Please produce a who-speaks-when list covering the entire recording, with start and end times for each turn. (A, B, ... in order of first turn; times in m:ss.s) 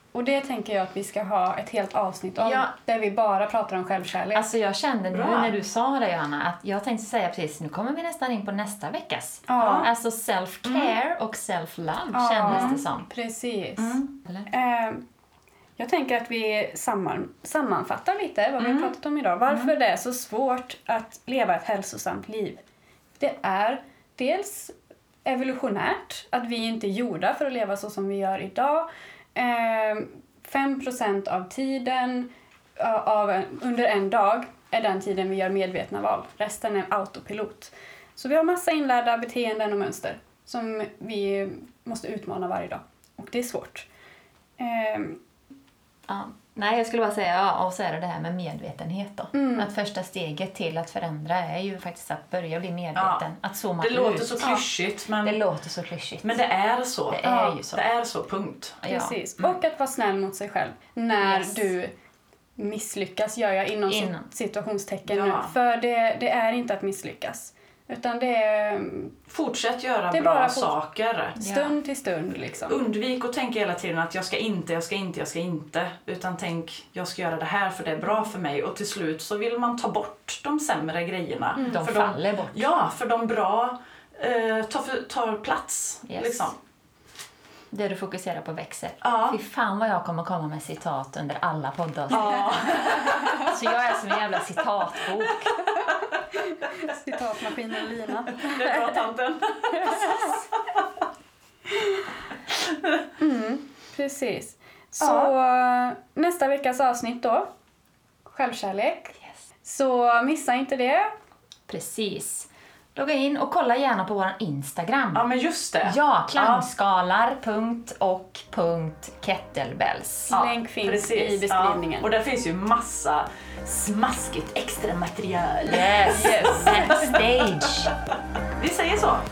0:00.1-0:04.5 A
0:02.4-0:02.7 B
0:04.3-0:13.1 B
0:05.1-0:05.5 C
0:09.5-0:09.9 A
0:09.6-0:09.9 C
0:10.6-0:11.0 C
0:12.1-0:15.0 A
0:12.5-0:12.8 C
0:13.8-0:14.1 C
0:15.8-0:22.6 A
0:18.6-0:18.9 C
0:23.2-0:24.7 A
0:25.2-0:43.9 A
0:44.6-0:45.2 A
0:46.1-0:54.5 B
0:49.3-0:49.7 A
0:53.0-0:53.2 C
0:53.8-0:55.4 C
0:55.2-0:56.4 B
0:56.2-0:58.8 C
0:57.1-0:57.8 B
0:57.2-0:57.6 A
0:58.8-0:59.2 B
0:58.8-1:01.9 A
1:01.2-1:01.7 B
1:02.6-1:09.1 A
1:03.9-1:04.3 B
1:05.1-1:05.5 C
1:09.3-1:11.4 C
1:10.1-1:10.7 A
1:11.4-1:12.8 A
1:11.4-1:11.8 B
1:12.7-1:26.6 C
1:21.7-1:22.7 B
1:26.1-1:26.5 B
1:27.7-1:35.6 B
1:29.0-1:29.4 C
1:32.1-1:33.7 C
1:35.8-1:39.0 A
1:38.3-1:40.4 C
1:39.7-1:40.4 A
1:41.7-1:42.1 A
1:43.2-1:47.5 A
1:45.0-1:45.3 C
1:48.3-1:51.1 A
1:51.7-1:55.3 B
1:55.1-1:56.7 C
1:55.8-2:00.4 B
2:00.3-2:07.9 C
2:00.3-2:02.1 A
2:05.6-2:07.9 B
2:06.2-2:06.7 A
2:08.6-2:09.2 C